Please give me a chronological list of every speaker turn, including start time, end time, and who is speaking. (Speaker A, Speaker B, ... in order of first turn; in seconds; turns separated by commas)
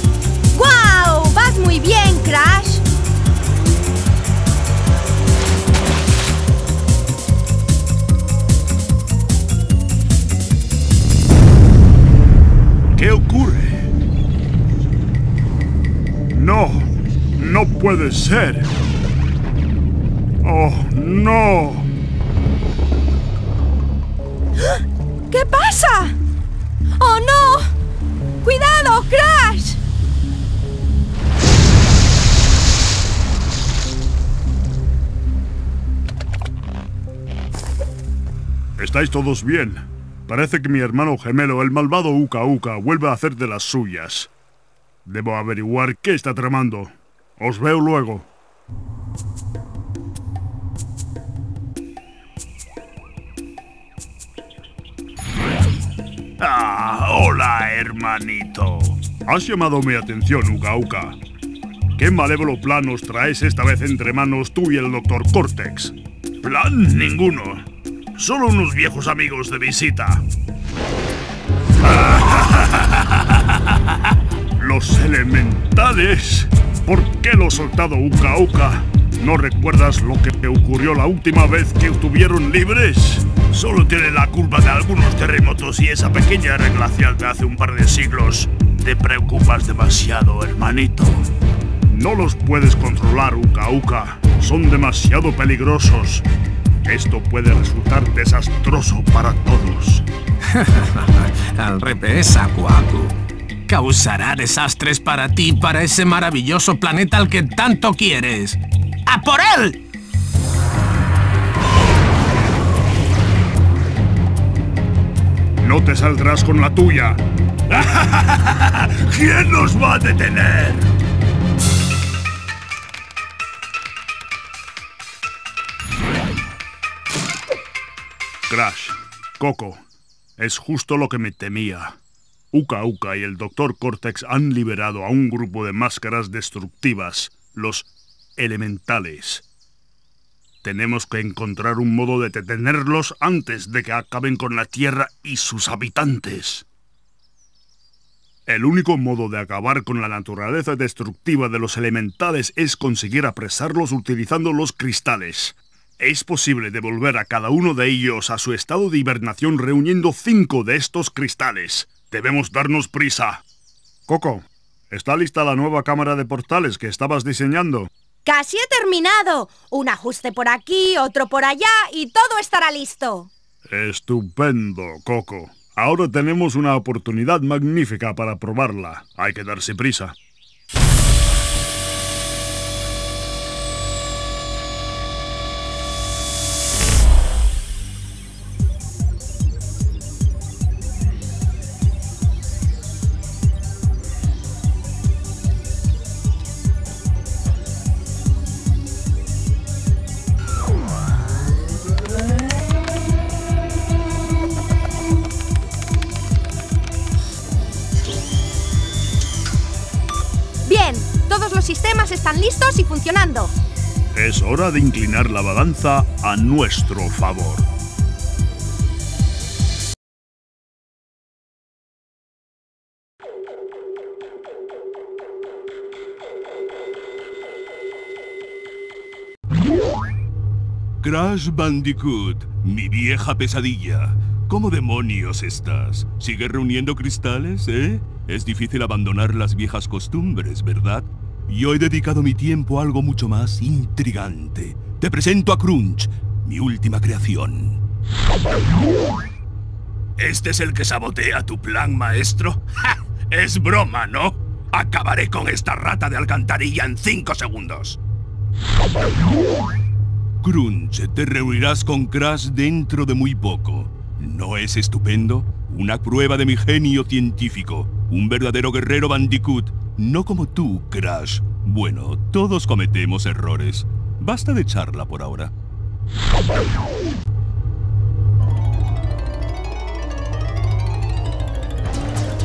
Speaker A: 0.5-2.8, Speaker B: 13.0-13.7, Speaker B: 16.3-18.7, Speaker B: 20.4-21.9, Speaker A: 24.7-26.2, Speaker A: 27.0-27.7, Speaker A: 28.4-29.8, Speaker B: 38.8-44.3, Speaker B: 45.0-48.3, Speaker B: 56.4-61.2, Speaker B: 62.0-70.2, Speaker B: 71.8-73.1, Speaker B: 74.6-91.2, Speaker B: 91.9-96.2, Speaker B: 96.8-100.0, Speaker C: 100.5-103.1, Speaker C: 103.7-109.8, Speaker B: 115.6-120.9, Speaker B: 128.5-129.8, Speaker B: 130.4-132.0, Speaker B: 132.5-139.4, Speaker B: 140.6-146.6, Speaker B: 148.5-163.4, Speaker B: 164.1-167.9, Speaker A: 168.2-173.3, Speaker B: 173.7-180.1, Speaker A: 210.7-213.5, Speaker B: 214.1-217.7, Speaker D: 231.0-247.8, Speaker D: 250.2-258.0, Speaker D: 260.4-275.5